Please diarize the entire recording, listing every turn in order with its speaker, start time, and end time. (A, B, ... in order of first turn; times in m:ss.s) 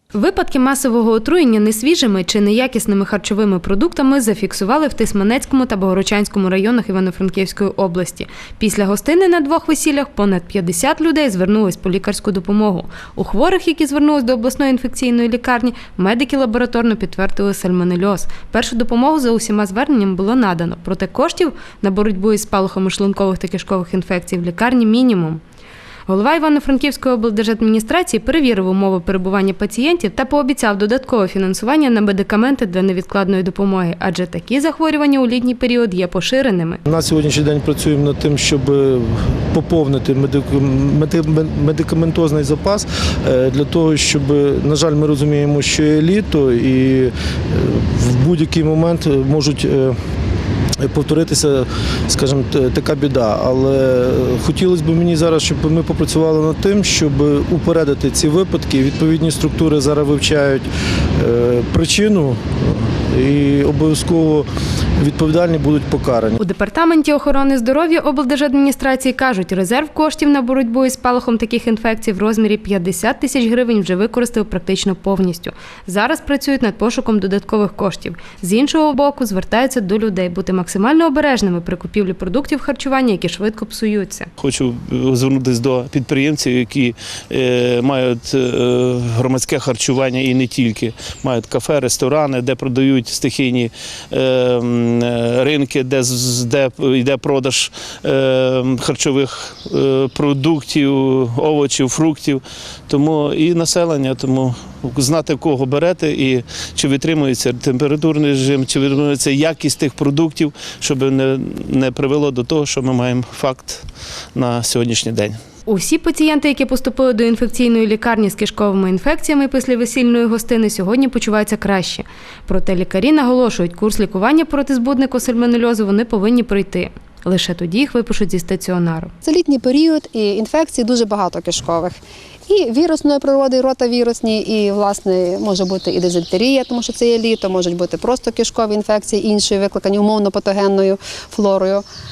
0:00.1-0:25.4 A
0:26.1-0:36.8 A
0:36.9-0:50.0 B
0:50.8-1:00.6 B
1:01.2-1:04.5 B
1:05.0-1:06.4 B
1:06.4-1:24.3 A
1:24.4-1:53.8 C
1:54.4-1:55.4 C
1:55.7-2:09.1 A
2:09.2-2:12.0 D
2:12.5-2:21.8 D